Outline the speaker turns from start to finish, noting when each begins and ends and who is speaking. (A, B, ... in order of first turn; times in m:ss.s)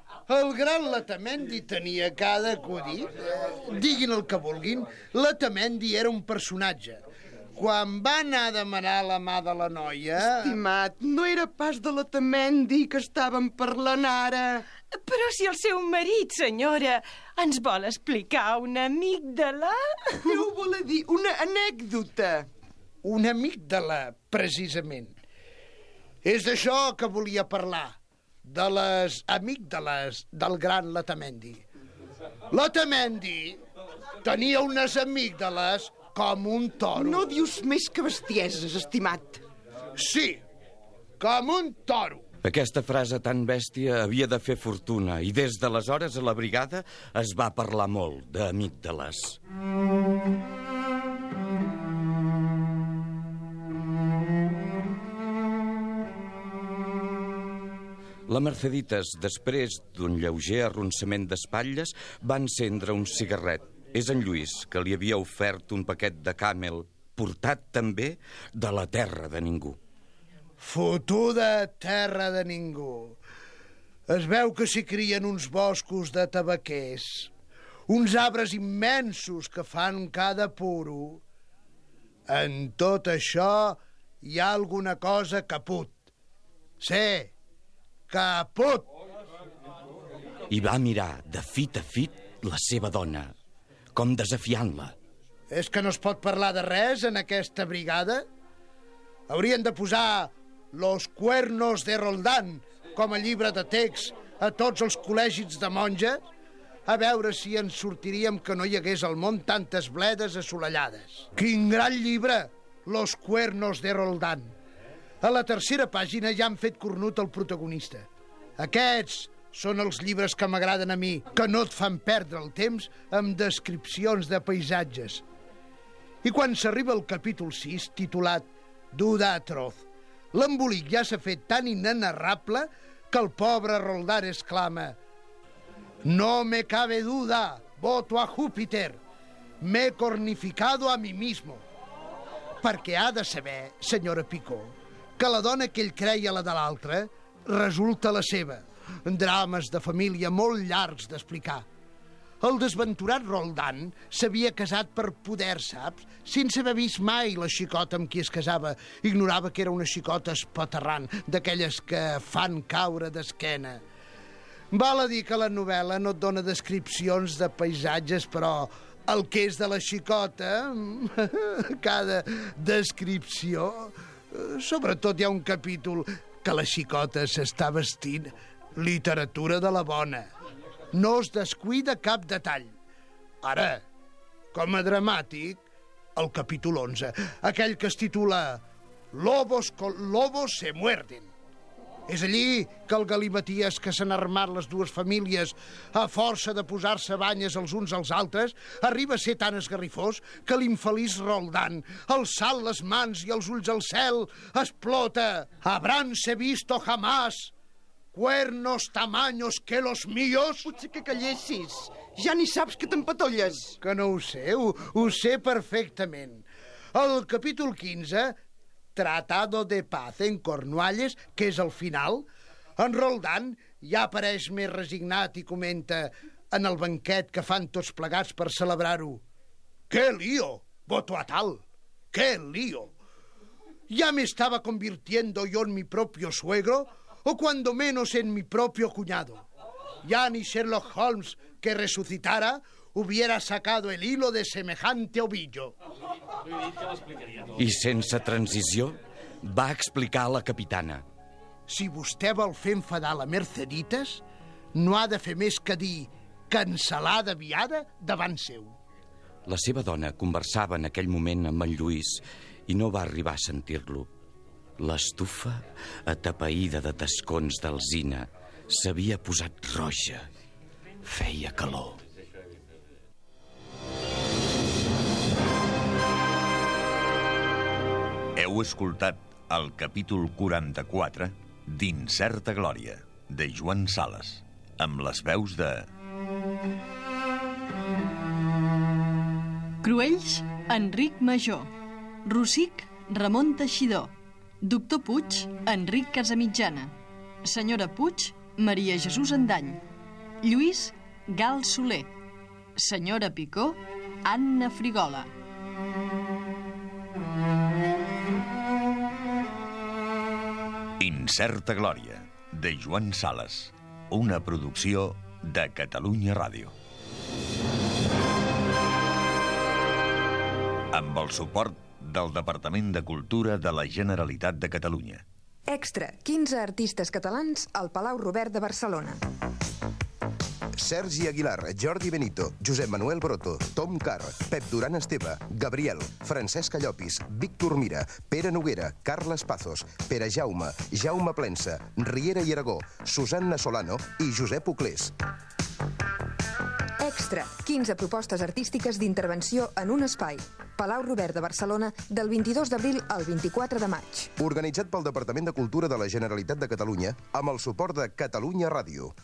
0:00.3-0:07.0 A
0:07.5-0:10.6 A
0:10.1-0:14.7 B
0:14.9-0:20.5 C
0:20.2-0:22.5 B
0:23.0-0:25.1 A
0:26.2-0:31.6 A
0:32.5-0:33.6 A
0:34.2-0:37.3 A
0:37.0-0:39.4 B
0:40.0-0:40.4 A
0:41.2-0:42.2 A
0:42.4-0:49.4 D
0:58.3-1:09.8 D
1:10.6-1:13.2 A
1:14.1-1:17.3 A
1:17.9-1:21.2 A
1:22.3-1:26.0 A
1:26.8-1:27.3 A
1:28.1-1:28.9 A
1:30.5-1:33.3 D
1:33.9-1:35.0 D
1:35.5-1:38.2 A
1:39.3-1:46.2 A
1:46.9-1:54.5 A
1:55.2-2:05.2 A
2:06.2-2:15.0 A
2:16.0-2:19.0 A
2:19.6-2:21.6 A
2:22.6-2:31.6 A
2:32.4-2:43.8 A
2:44.7-3:00.3 A
3:00.9-3:02.7 A
3:03.4-3:03.8 A
3:04.5-3:05.6 A
3:06.2-3:08.6 A
3:09.1-3:11.3 A
3:12.1-3:27.5 A
3:28.1-3:30.7 A
3:30.6-3:33.8 B
3:33.8-3:38.4 A
3:39.0-3:49.2 A
3:49.9-3:53.0 A
3:53.9-3:59.5 A
4:00.0-4:05.8 A
4:07.5-4:11.0 D
4:11.7-4:14.2 A
4:14.7-4:18.8 A
4:19.5-4:24.1 D
4:24.8-4:30.3 D
4:31.0-4:32.0 D
4:38.4-4:45.9 E
4:49.8-4:51.7 F
4:52.2-4:59.8 F
5:00.4-5:02.1 F
5:02.8-5:05.3 F
5:11.0-5:16.7 E
5:20.9-5:25.2 E
5:25.7-5:29.2 G
5:30.8-5:45.1 H
5:47.0-5:54.3 G
5:54.4-5:59.1 H